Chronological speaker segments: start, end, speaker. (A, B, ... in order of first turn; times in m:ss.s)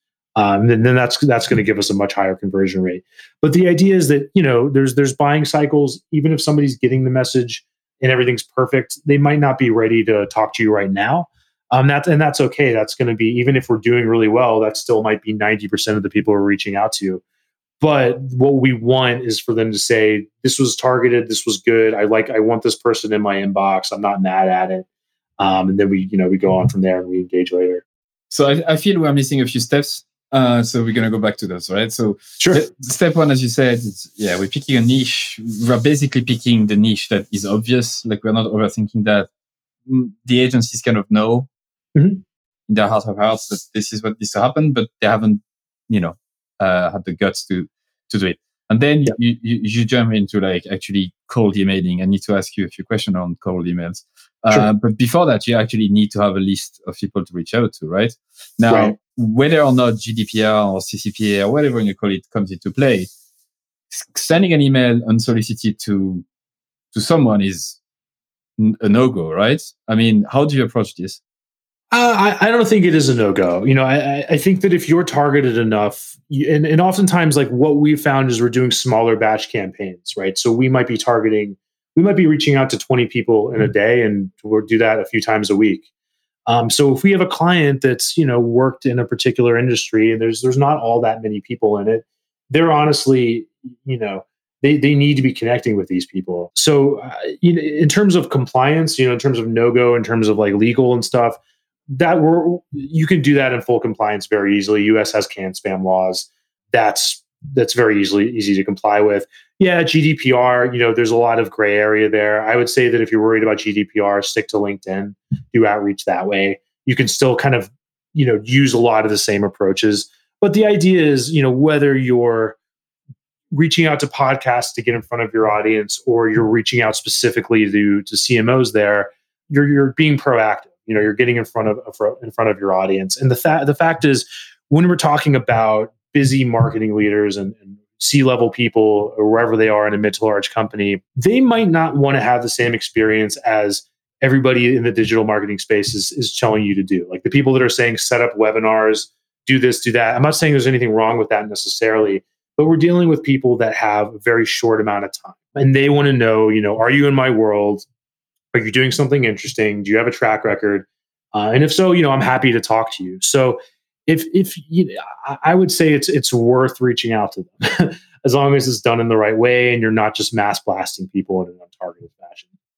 0:00.4-0:17.2 A
0:17.8-0:24.8 A
0:25.4-0:27.8 A
0:28.3-0:39.3 B
0:32.4-0:32.6 A
0:39.8-0:41.5 B
0:41.9-0:42.2 A
0:42.7-1:03.1 B
0:58.7-0:59.0 A
1:03.9-1:06.2 B
1:06.9-1:07.8 B
1:08.6-1:11.2 B
1:11.9-1:25.9 A
1:26.5-1:41.4 A
1:41.9-2:02.6 A
2:03.5-2:37.8 A
2:38.5-2:52.5 A